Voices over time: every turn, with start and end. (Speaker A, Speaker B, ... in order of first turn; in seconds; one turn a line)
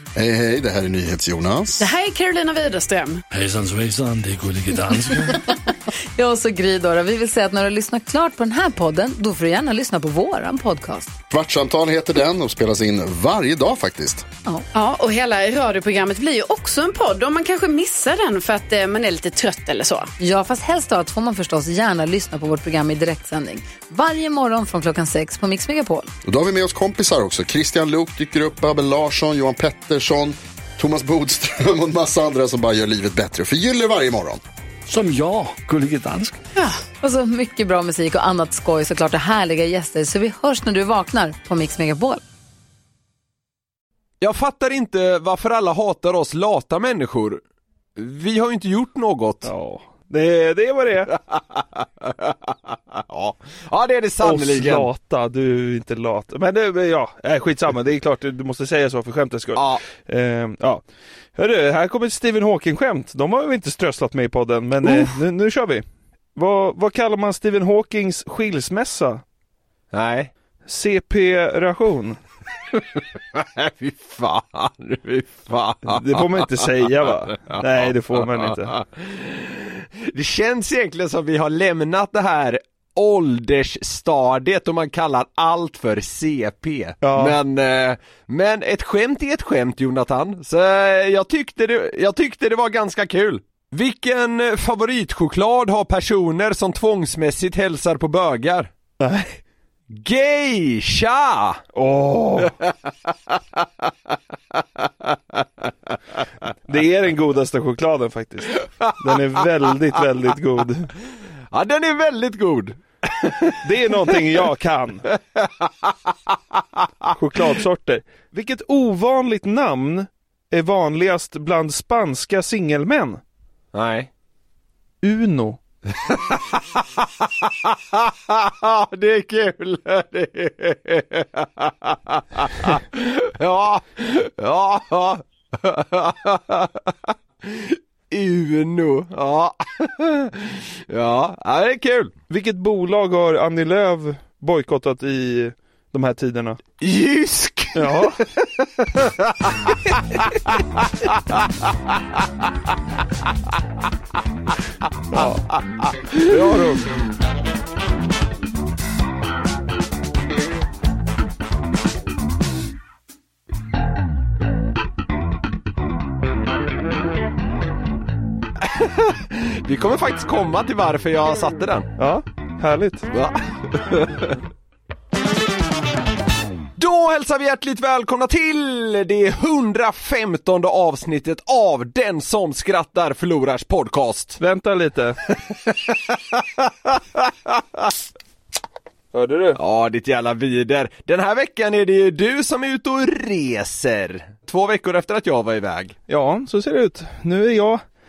Speaker A: 0.2-1.9
Speaker B: 1.8-3.2
Speaker C: 3.3-5.3
Speaker D: 6.2-11.1
Speaker A: 11.3-14.2
Speaker B: 14.7-20.1
Speaker D: 20.2-26.1
Speaker A: 26.2-34.4
Speaker C: 34.9-36.4
Speaker D: 36.6-42.2
Speaker E: 44.2-47.4
Speaker E: 48.0-49.5
Speaker F: 49.4-51.1
Speaker E: 51.3-54.9
Speaker F: 54.2-60.8
Speaker E: 59.6-59.8
Speaker F: 61.4-65.8
Speaker E: 64.8-65.2
Speaker F: 66.4-69.2
Speaker E: 69.9-70.3
Speaker F: 70.7-72.2
Speaker E: 72.7-76.7
Speaker F: 75.9-78.7
Speaker E: 77.4-98.7
Speaker F: 87.0-87.4
Speaker F: 99.0-99.4
Speaker E: 99.9-101.6
Speaker F: 101.7-102.5
Speaker E: 102.4-103.9
Speaker E: 104.5-105.9
Speaker F: 106.7-110.9
Speaker E: 108.5-109.2
Speaker E: 111.5-114.1
Speaker F: 113.6-115.1
Speaker E: 115.1-116.0
Speaker E: 116.5-117.1
Speaker F: 117.1-123.2
Speaker E: 123.7-124.1
Speaker F: 125.0-125.6
Speaker E: 126.0-142.1
Speaker F: 142.3-146.6
Speaker E: 146.8-151.5
Speaker F: 147.7-148.2
Speaker F: 155.1-155.5
Speaker E: 156.1-156.6
Speaker F: 156.2-156.9
Speaker E: 168.6-171.9
Speaker F: 172.0-173.1
Speaker E: 173.1-174.4
Speaker E: 176.8-184.4
Speaker F: 184.4-185.2
Speaker E: 185.5-187.9
Speaker F: 189.1-189.6
Speaker E: 189.6-195.9
Speaker F: 196.1-197.8